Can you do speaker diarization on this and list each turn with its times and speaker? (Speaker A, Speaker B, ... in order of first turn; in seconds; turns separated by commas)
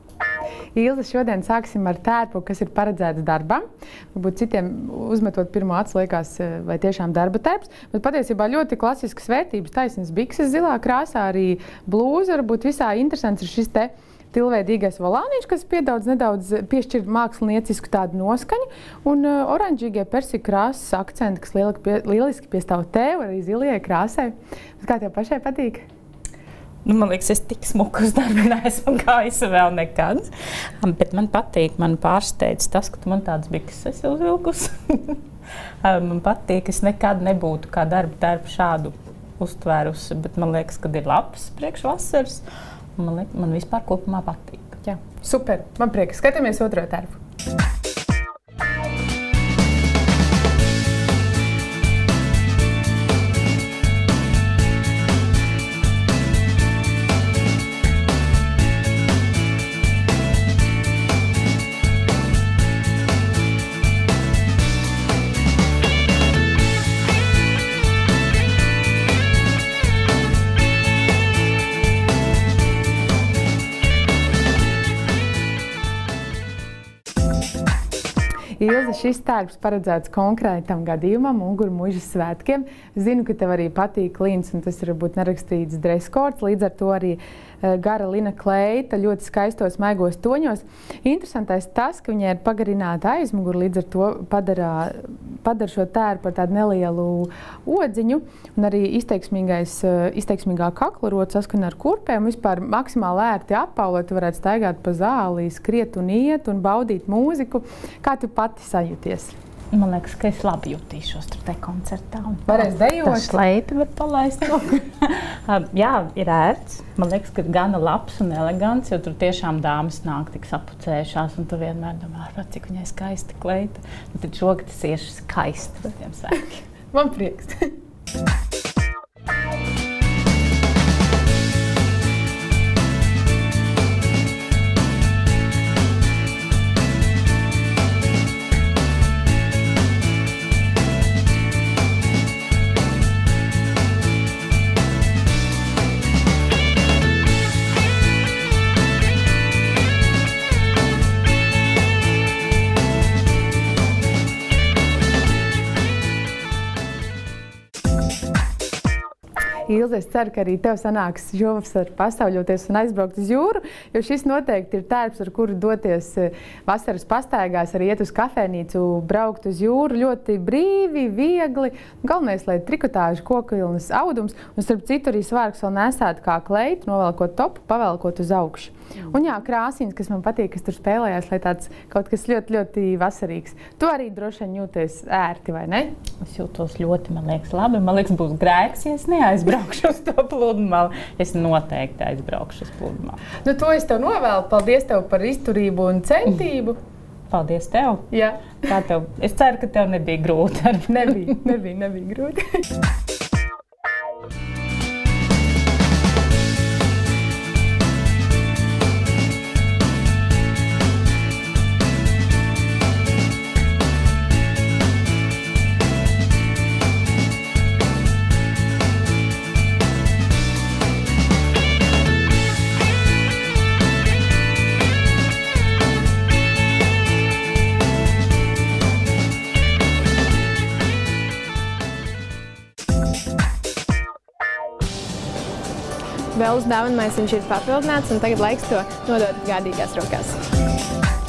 Speaker A: 0.8-25.9, Speaker B: 26.9-30.3, Speaker B: 30.8-35.2, Speaker B: 35.8-42.4, Speaker B: 43.0-44.8, Speaker A: 44.8-47.2, Speaker A: 78.6-109.3, Speaker B: 109.7-126.5, Speaker A: 112.5-113.4, Speaker A: 126.9-127.7, Speaker A: 159.7-185.9, Speaker B: 186.2-193.2, Speaker A: 193.4-196.8, Speaker B: 197.3-198.1, Speaker A: 198.1-198.5, Speaker B: 198.6-201.4, Speaker A: 200.9-202.4, Speaker C: 236.3-240.4